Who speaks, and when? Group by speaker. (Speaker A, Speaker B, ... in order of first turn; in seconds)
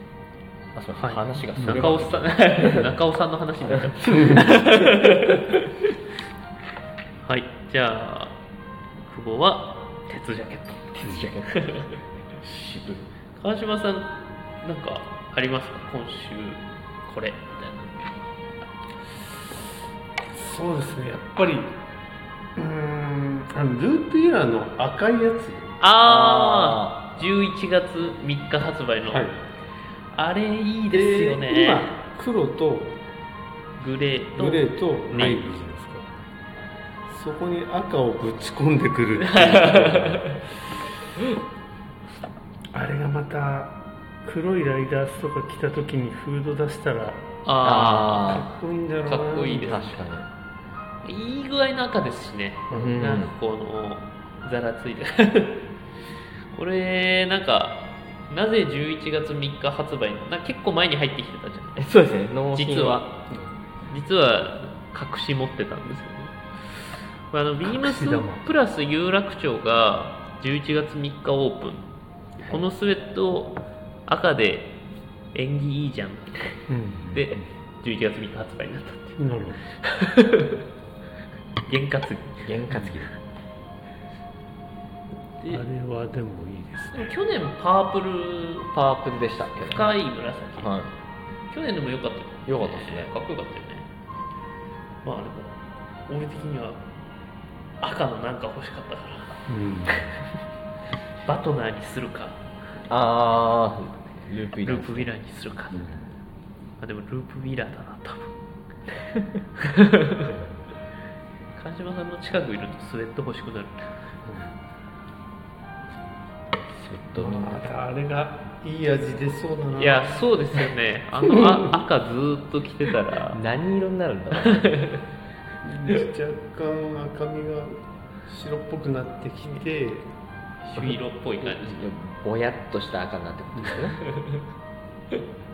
Speaker A: 0.7-2.9, 3.7-5.2, 11.0-11.8, 12.4-13.0, 26.0-27.0, 47.6-48.5, 49.7-50.3, 52.7-53.3, 61.8-63.1, 82.4-83.1, 88.7-90.0, 90.6-90.9, 92.5-93.1, 102.9-105.1, 116.7-117.7, 123.3-124.9, 131.4-134.0
Speaker B: 1.0-5.7, 7.2-8.4, 9.0-11.9, 13.3-18.3, 25.8-29.2, 30.1-31.9, 33.8-35.4, 39.2-40.4, 47.4-48.5, 49.0-50.0, 51.0-55.6, 56.5-61.9, 62.5-63.1, 63.9-71.9, 72.5-74.8, 75.3-76.6, 77.1-79.2, 79.8-80.6, 81.7-82.5, 86.9-88.7, 89.6-90.7, 91.5-93.9, 95.0-96.8, 97.8-99.4, 101.2-102.4, 104.6-105.8, 106.8-108.3, 109.6-110.3, 111.5-113.9, 119.8-123.4, 124.4-125.0, 130.6-131.9
Speaker C: 1.6-1.9, 4.1-4.5, 20.3-21.8, 22.6-25.8, 29.1-29.4, 30.9-33.0, 34.4-36.1, 37.1-40.4, 42.7-47.3, 48.1-49.9, 52.7-53.0, 63.3-63.5, 67.6-68.4, 76.7-77.4, 79.2-79.6, 85.5-87.1, 99.5-100.2, 105.7-106.1, 110.2-110.5, 114.2-114.5, 117.1-120.3, 125.6-130.1